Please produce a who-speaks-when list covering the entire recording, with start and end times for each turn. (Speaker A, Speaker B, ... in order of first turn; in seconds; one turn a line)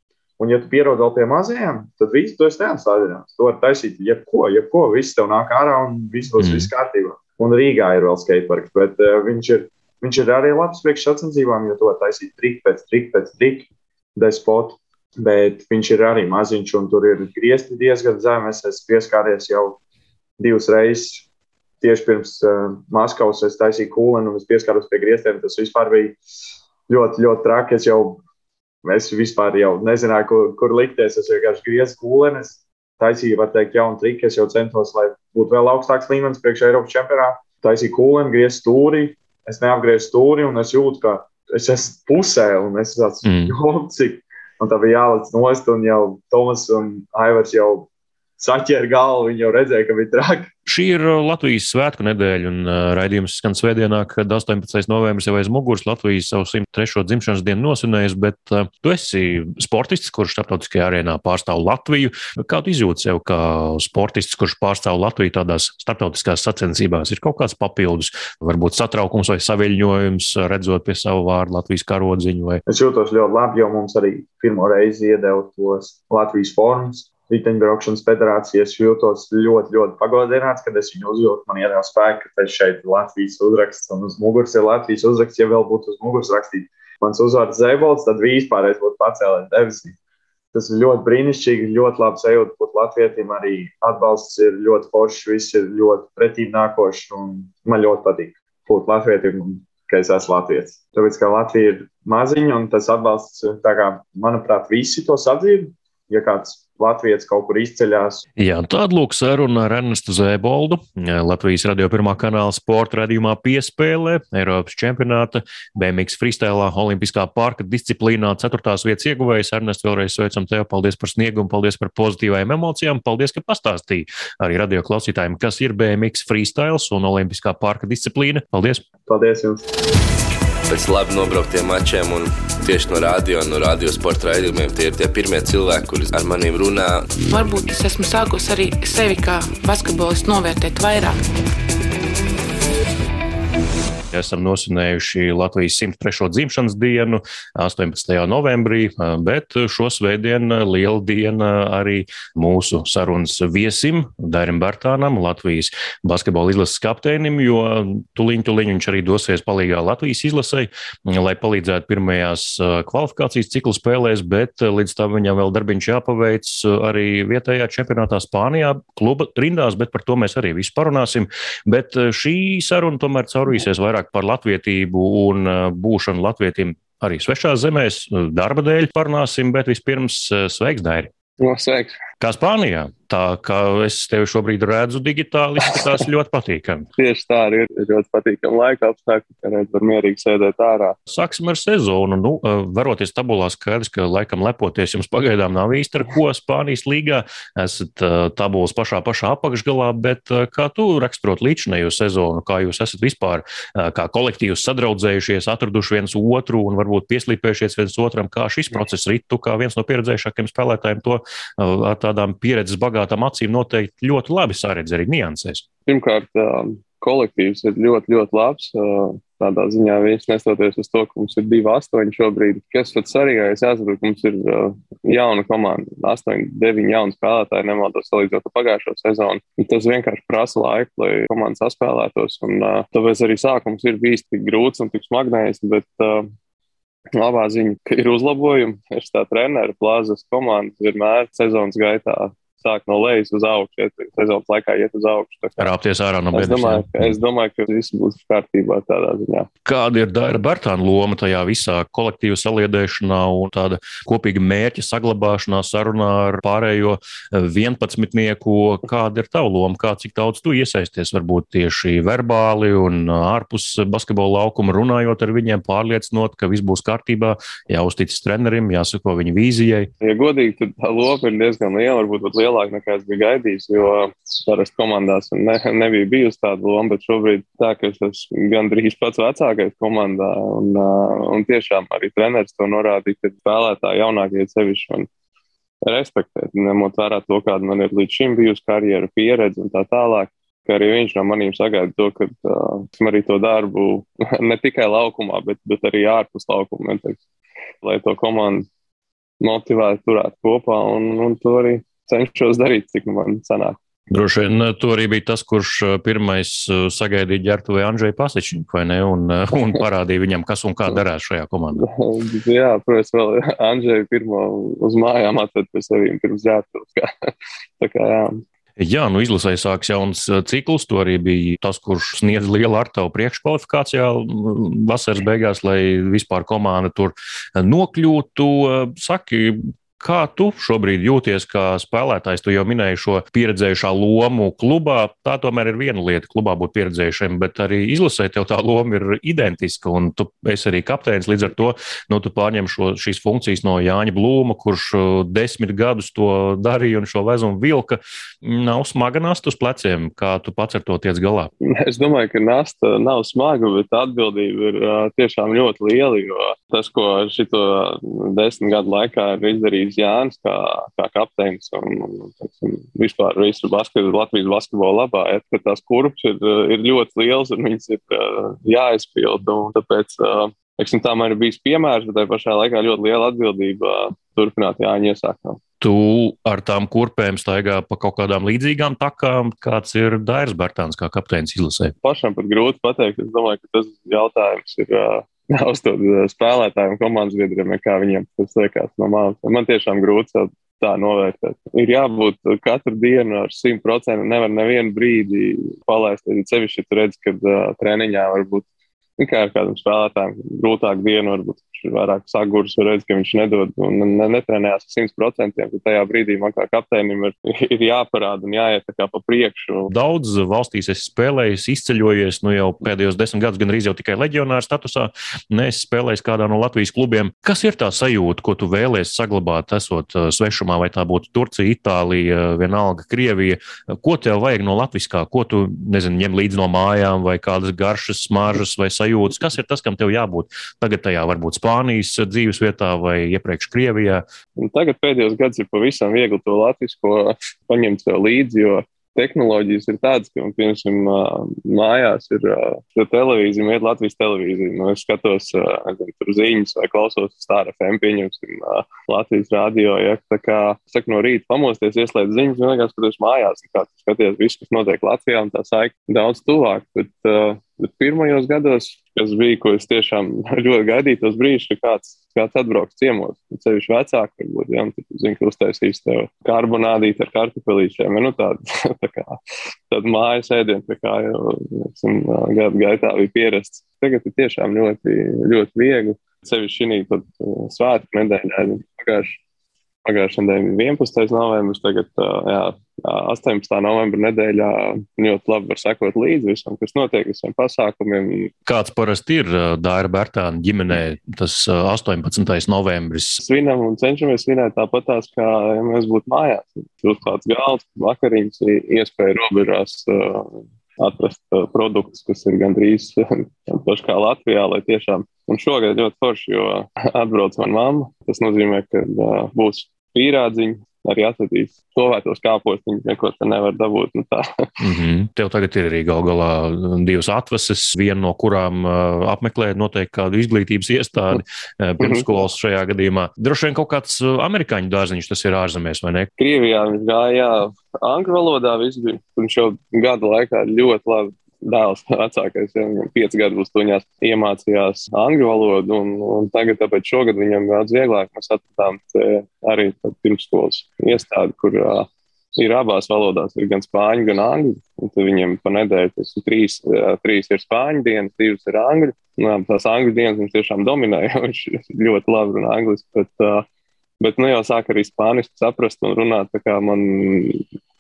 Speaker A: 0.4-19.8
Speaker B: 6.4-6.7
Speaker A: 20.4-21.2
Speaker A: 21.8-26.2
Speaker A: 26.9-28.2
Speaker A: 28.8-47.9
Speaker B: 43.2-43.5
Speaker A: 48.4-50.5
Speaker B: 50.7-72.6
Speaker A: 72.7-90.0
Speaker A: 90.5-108.2
Speaker B: 108.4-128.8
Speaker A: 129.1-129.7
Speaker C: 130.7-137.2
Speaker D: 137.3-141.2
Speaker B: 144.1-181.1
Speaker E: 181.4-182.0
Speaker B: 182.2-186.9
Speaker E: 187.0-191.0
Speaker B: 191.1-215.7
Speaker E: 215.9-236.3
Speaker E: 237.2-245.7
Speaker B: 245.6-246.9
Speaker E: 246.3-249.5
Speaker B: 249.7-269.9
Speaker E: 270.0-285.1
Speaker E: 285.9-297.2
Speaker E: 297.8-298.7
Speaker E: 299.4-303.8
Speaker B: 304.1-311.9
Speaker E: 311.8-318.4
Speaker B: 318.8-351.5
Speaker E: 351.6-375.6
Speaker B: 375.8-381.9
Speaker E: 382.0-398.7
Speaker E: 399.2-409.9
Speaker B: 409.9-434.2
Speaker E: 434.6-469.4
Speaker E: 469.9-479.4
Speaker E: 480.1-488.5
Speaker B: 488.7-493.4
Speaker E: 493.4-514.7
Speaker B: 514.8-526.3
Speaker E: 526.4-553.7
Speaker E: 554.2-557.6